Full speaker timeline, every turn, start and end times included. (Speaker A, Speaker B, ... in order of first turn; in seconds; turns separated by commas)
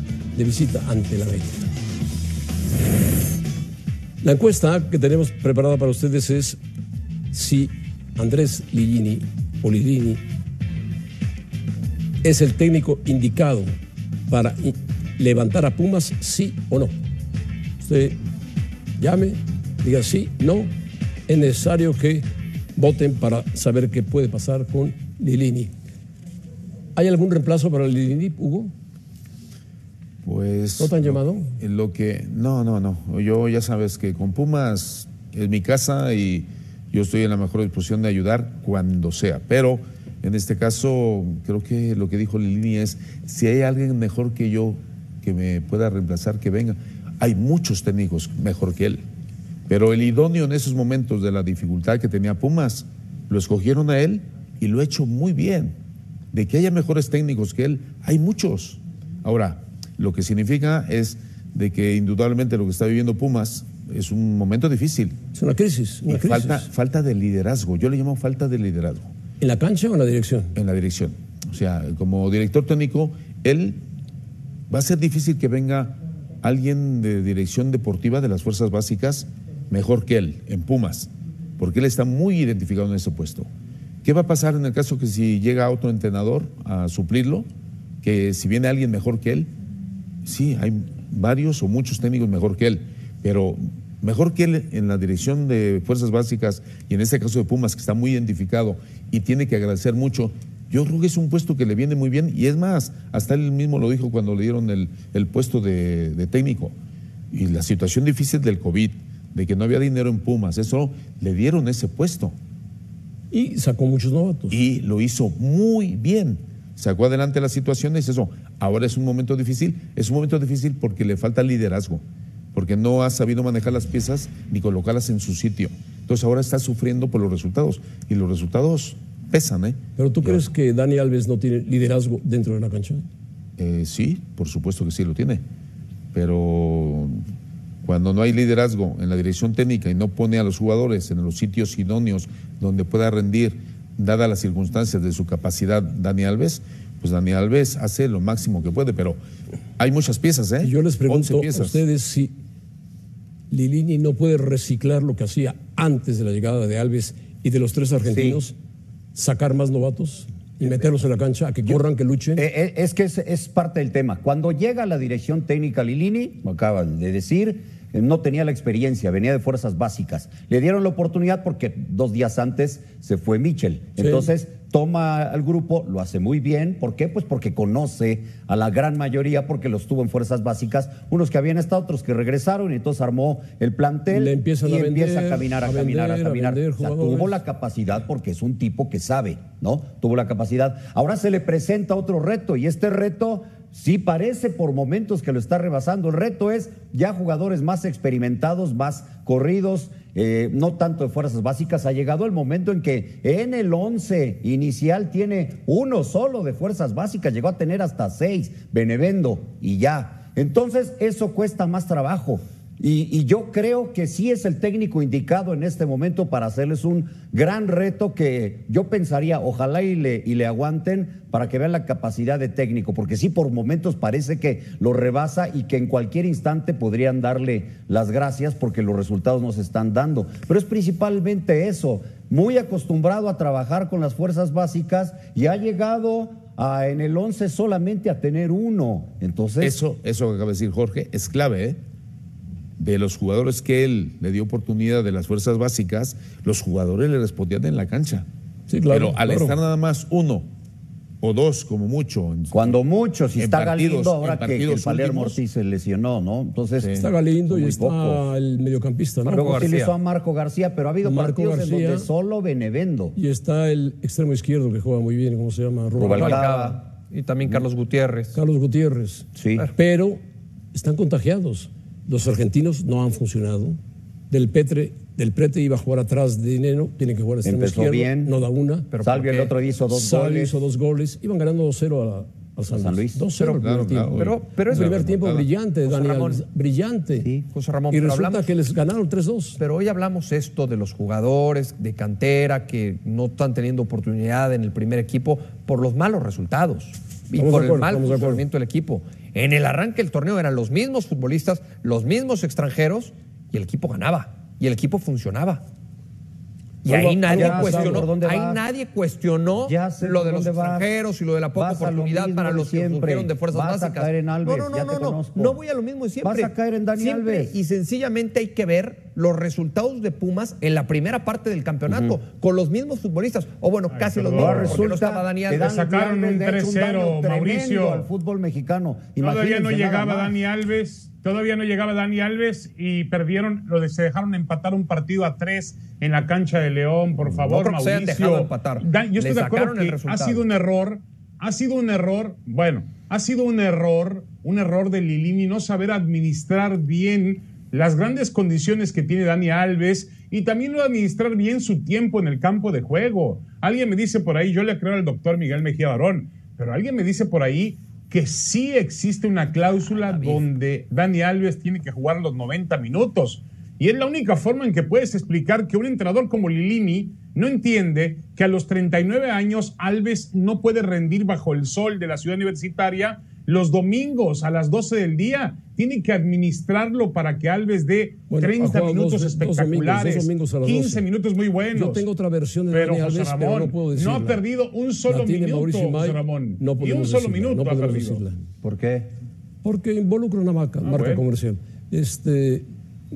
Speaker A: 0.3-1.7, Speaker A: 4.2-6.6, Speaker A: 7.3-10.2, Speaker A: 12.2-13.7, Speaker A: 14.3-16.9, Speaker A: 17.8-18.2, Speaker A: 19.0-20.7, Speaker A: 21.3-25.7, Speaker A: 26.9-28.7, Speaker B: 30.2-49.0, Speaker A: 30.8-31.5, Speaker B: 49.7-55.7, Speaker B: 56.3-65.2, Speaker A: 65.3-66.7, Speaker B: 66.1-69.1, Speaker A: 69.4-70.5, Speaker B: 70.5-73.8, Speaker B: 74.7-83.5, Speaker B: 84.0-87.5, Speaker B: 88.0-89.5, Speaker B: 90.2-106.7, Speaker B: 107.3-112.3, Speaker A: 113.3-114.6, Speaker B: 114.5-130.4, Speaker A: 130.0-133.0, Speaker B: 133.6-135.4, Speaker B: 136.1-137.2, Speaker B: 137.8-149.2, Speaker B: 149.8-151.8, Speaker A: 150.6-152.3, Speaker A: 153.5-158.5, Speaker C: 158.1-158.4, Speaker A: 159.1-162.4, Speaker C: 162.3-239.8, Speaker A: 174.0-174.3, Speaker A: 184.1-187.4, Speaker B: 239.6-241.8, Speaker B: 242.8-248.2, Speaker A: 248.7-249.6, Speaker B: 248.9-250.5, Speaker B: 251.2-252.7, Speaker C: 252.5-256.9, Speaker B: 253.4-255.4, Speaker B: 256.8-257.6, Speaker A: 256.9-259.7, Speaker C: 257.5-258.2, Speaker D: 259.3-259.9, Speaker C: 259.3-263.1, Speaker A: 261.0-262.1, Speaker A: 263.1-266.4, Speaker C: 266.0-266.8, Speaker D: 266.1-268.4, Speaker A: 268.3-270.2, Speaker C: 269.4-269.6, Speaker A: 270.7-273.8, Speaker A: 274.3-278.9, Speaker C: 277.4-278.3, Speaker D: 278.9-279.5, Speaker C: 279.0-280.6, Speaker A: 279.9-287.3, Speaker C: 282.7-283.3, Speaker B: 283.4-285.5, Speaker D: 284.1-285.1, Speaker D: 285.8-286.4, Speaker D: 287.5-288.5, Speaker A: 287.9-289.6, Speaker D: 289.6-305.6, Speaker A: 297.3-298.4, Speaker D: 306.8-325.8, Speaker C: 306.9-308.6, Speaker B: 307.4-308.0, Speaker C: 309.6-310.9, Speaker C: 311.5-315.6, Speaker C: 316.2-317.5, Speaker E: 323.9-324.9, Speaker C: 324.3-330.4, Speaker E: 325.6-328.1, Speaker E: 329.2-382.1, Speaker D: 337.4-340.4, Speaker D: 359.8-360.5, Speaker A: 378.3-381.0, Speaker A: 381.7-384.4, Speaker E: 382.7-388.2, Speaker A: 385.1-388.4, Speaker C: 388.6-389.1, Speaker A: 389.6-392.7, Speaker E: 390.8-391.2